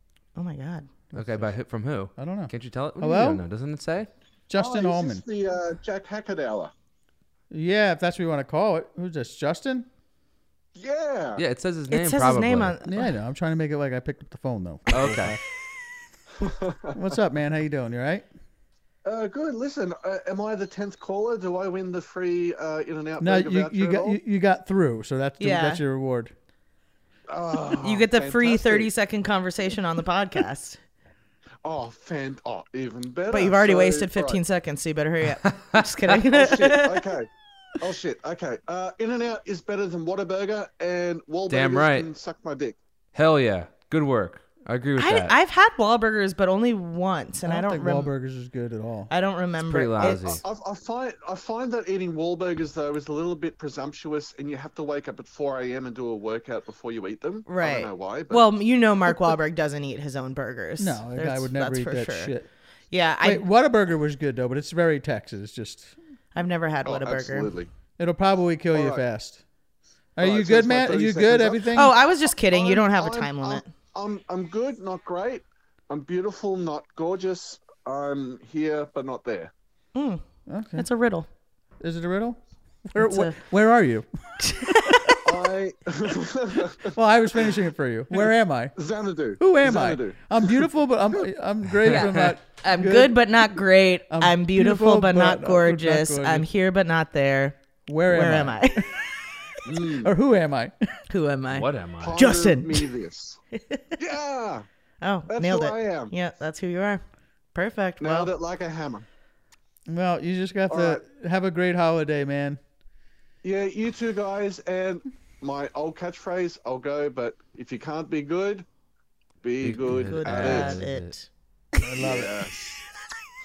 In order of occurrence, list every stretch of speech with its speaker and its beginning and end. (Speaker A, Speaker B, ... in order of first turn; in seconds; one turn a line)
Speaker A: 0.4-0.9
Speaker B: 1.1-1.5
Speaker C: 1.2-4.1
Speaker B: 2.2-3.4
Speaker B: 4.5-5.2
Speaker D: 4.6-6.7
Speaker B: 7.5-9.9
Speaker D: 10.8-11.4
Speaker C: 11.4-12.7
Speaker A: 11.9-13.1
Speaker B: 12.8-15.4
Speaker C: 14.9-15.3
Speaker D: 16.4-17.2
Speaker B: 16.9-18.2
Speaker D: 19.1-24.2
Speaker B: 23.2-26.3
Speaker A: 25.4-25.8
Speaker D: 27.3-28.9
Speaker A: 27.8-30.8
Speaker D: 31.6-34.4
Speaker A: 33.3-37.1
Speaker D: 36.3-37.3
Speaker D: 37.8-42.8
Speaker C: 41.5-42.1
Speaker C: 43.1-45.3
Speaker A: 45.0-48.1
Speaker B: 47.5-49.1
Speaker A: 49.1-50.4
Speaker C: 49.7-50.4
Speaker D: 50.0-58.5
Speaker A: 57.5-62.3
Speaker B: 60.8-62.5
Speaker A: 62.9-63.5
Speaker B: 63.2-65.9
Speaker A: 66.3-67.5
Speaker D: 66.8-67.7
Speaker B: 68.0-69.4
Speaker D: 68.7-69.0
Speaker B: 70.2-71.9
Speaker D: 70.2-79.5
Speaker A: 71.8-73.7
Speaker A: 80.0-80.2
Speaker B: 80.5-80.9
Speaker A: 80.8-81.3
Speaker B: 81.8-84.1
Speaker A: 83.0-83.4
Speaker A: 84.4-85.2
Speaker B: 84.7-85.1
Speaker D: 85.2-87.0
Speaker B: 86.9-88.8
Speaker D: 88.1-91.2
Speaker B: 89.4-93.4
Speaker A: 91.9-99.0
Speaker B: 94.1-96.5
Speaker B: 97.9-98.8
Speaker D: 99.7-100.1
Speaker B: 100.0-100.7
Speaker A: 101.1-102.9
Speaker C: 101.5-102.2
Speaker D: 102.0-103.4
Speaker D: 104.0-104.7
Speaker A: 105.0-107.0
Speaker D: 105.3-106.1
Speaker A: 107.5-108.3
Speaker D: 108.0-109.0
Speaker B: 109.9-112.6
Speaker D: 110.7-111.0
Speaker D: 113.4-118.7
Speaker D: 119.4-120.8
Speaker C: 119.6-121.1
Speaker A: 119.9-121.3
Speaker B: 121.8-122.3
Speaker D: 122.0-122.7